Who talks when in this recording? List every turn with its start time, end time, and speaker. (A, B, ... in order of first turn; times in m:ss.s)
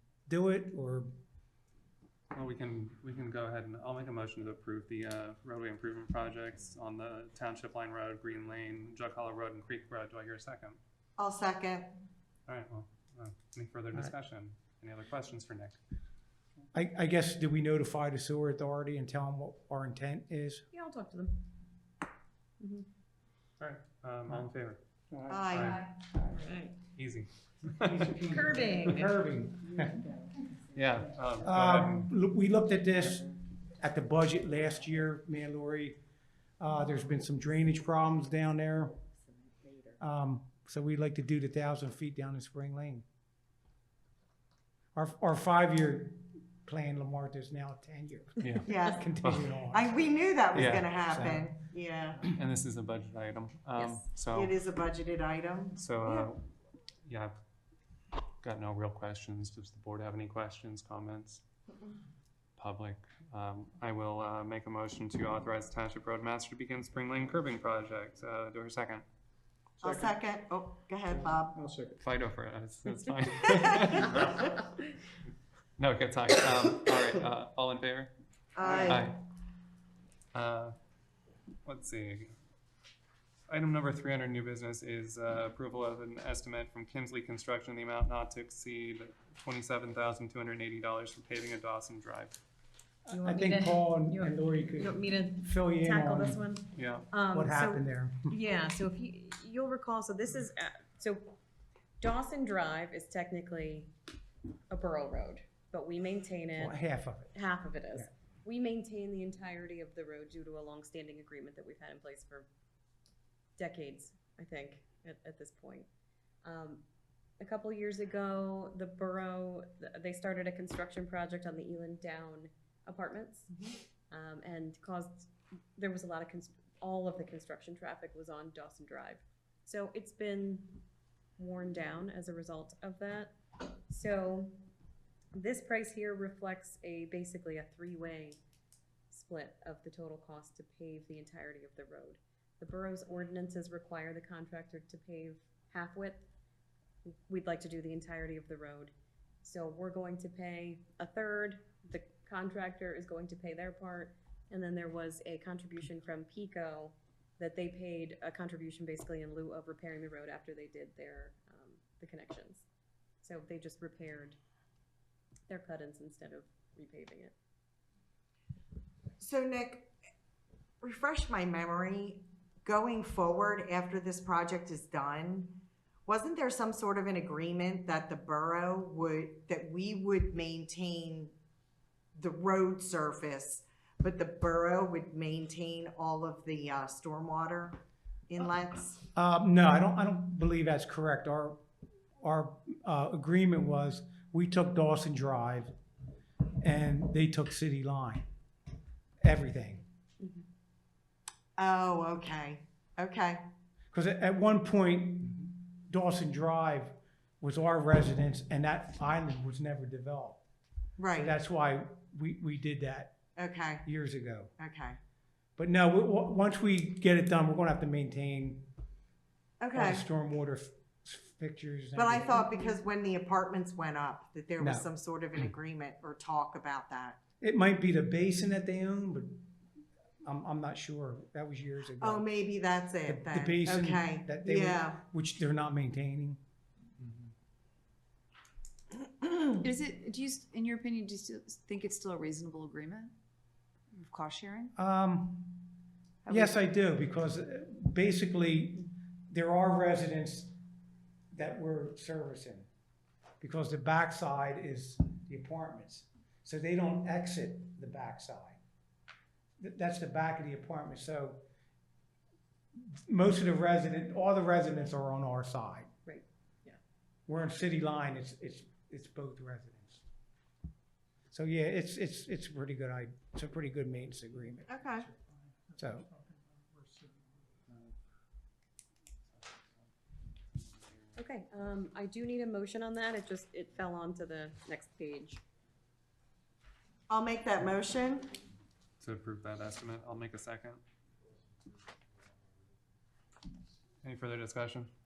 0:00.3-0:01.1 A
0:02.3-0:10.8 B
0:11.2-0:11.9 C
0:12.5-0:15.8 B
0:16.7-0:20.6 A
0:20.7-0:21.4 D
0:22.6-0:22.9 D
0:23.6-0:24.8 B
0:25.1-0:25.6 E
0:25.3-0:25.8 C
0:25.5-0:25.9 B
0:26.1-0:26.4 A
0:26.3-0:26.7 D
0:27.0-0:28.2 B
0:27.8-0:30.1 A
0:28.3-0:29.1 D
0:30.7-0:32.1 B
0:31.4-0:36.0 A
0:36.6-0:39.0 A
0:40.0-0:43.0 A
0:44.9-0:51.4 A
0:48.6-0:49.1 C
0:49.2-0:49.5 B
0:49.7-0:52.2 C
0:50.5-0:51.4 B
0:52.1-0:54.5 B
0:54.3-0:56.3 C
0:55.7-0:56.5 B
0:57.0-0:57.3 B
0:58.4-1:01.4 B
1:02.6-1:09.0 B
1:09.8-1:10.2 E
1:09.8-1:11.6 C
1:11.0-1:12.0 E
1:12.0-1:14.6 B
1:15.8-1:18.1 B
1:18.6-1:19.1 C
1:18.6-1:19.0 E
1:18.8-1:19.2 B
1:20.3-1:20.7 B
1:21.6-1:22.3 B
1:23.5-1:32.4 B
1:33.0-1:36.5 A
1:33.1-1:41.4 D
1:36.7-1:37.1 B
1:37.3-1:38.3 A
1:42.0-1:43.9 D
1:44.7-1:46.8 D
1:46.6-1:47.4 A
1:47.3-1:52.5 D
1:53.6-1:55.9 D
1:56.4-1:56.8 D
1:57.4-2:03.5 D
2:04.1-2:10.8 D
2:11.4-2:13.3 D
2:13.9-2:14.6 D
2:15.3-2:18.4 D
2:19.1-2:26.2 D
2:27.1-2:42.6 D
2:43.2-2:44.4 D
2:45.5-2:47.3 D
2:49.2-2:49.9 C
2:50.8-3:01.3 C
3:02.2-3:09.0 C
3:09.1-3:11.6 A
3:12.2-3:15.7 A
3:16.6-3:18.3 A
3:19.2-3:19.8 A
3:21.6-3:23.4 C
3:23.9-3:30.4 A
3:31.0-3:31.3 C
3:31.2-3:33.2 A
3:33.4-3:33.8 C
3:33.8-3:34.5 A
3:34.6-3:35.0 C
3:35.6-3:38.6 A
3:39.6-3:40.0 C
3:39.7-3:42.6 A
3:42.0-3:47.2 C
3:44.6-3:44.8 A
3:47.4-3:49.5 A
3:50.2-3:52.2 A
3:52.0-3:55.0 C
3:53.0-3:56.4 A
3:59.6-4:03.1 F
4:04.0-4:04.7 F
4:04.8-4:05.7 A
4:06.3-4:10.6 A
4:11.3-4:12.7 A
4:13.4-4:18.6 A
4:19.6-4:21.4 A
4:22.9-4:25.9 A
4:26.0-4:26.8 D
4:27.3-4:30.0 A
4:31.3-4:34.7 A
4:34.7-4:35.1 C
4:34.8-4:37.6 E
4:35.8-4:36.1 A
4:41.2-4:45.4 D
4:47.1-4:48.4 C
4:49.0-4:50.8 B
4:54.0-4:54.9 B